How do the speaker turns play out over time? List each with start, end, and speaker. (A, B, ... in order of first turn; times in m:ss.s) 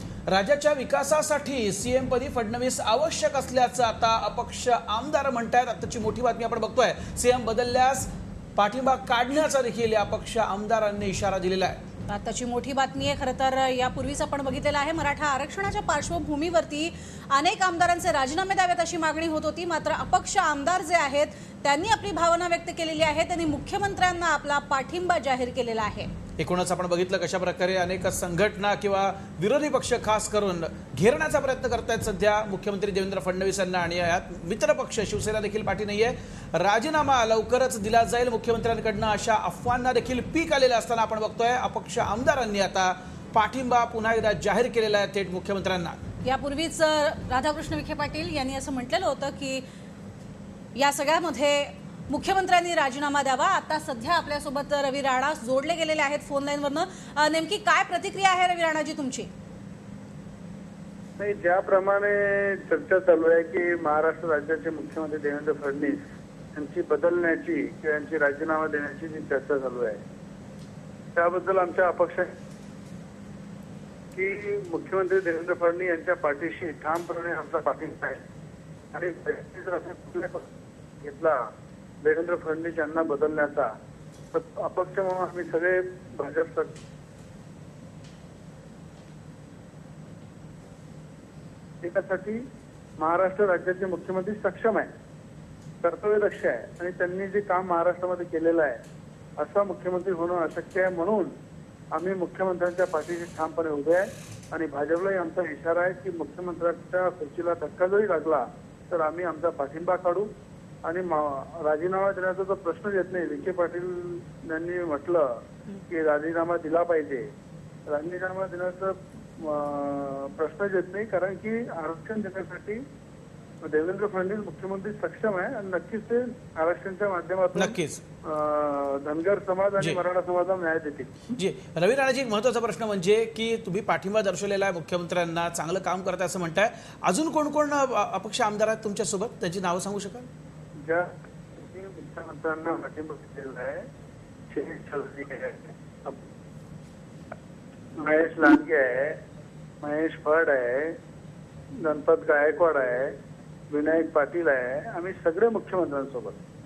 0:00.3-0:11.8 A
0:12.1-0:26.1 B
0:26.4-0:46.0 A
0:46.2-0:49.6 B
0:50.7-0:59.3 B
1:01.2-1:06.0 C
1:06.5-1:10.0 C
1:11.1-1:12.3 C
1:14.1-1:18.2 C
1:18.9-1:20.5 C
1:21.0-1:21.4 C
1:22.0-1:23.7 C
1:24.3-1:26.8 C
1:31.8-1:32.4 C
1:33.0-1:34.9 C
1:35.8-1:38.8 C
1:39.4-1:41.3 C
1:41.9-1:50.3 C
1:50.8-1:57.3 C
1:57.9-2:02.8 C
2:03.6-2:11.3 C
2:07.5-2:08.0 A
2:11.3-2:20.3 A
2:20.8-2:23.9 C
2:24.5-2:26.2 C
2:28.0-2:29.2 C
2:29.8-2:31.0 C
2:31.8-2:33.1 C
2:33.7-2:36.4 C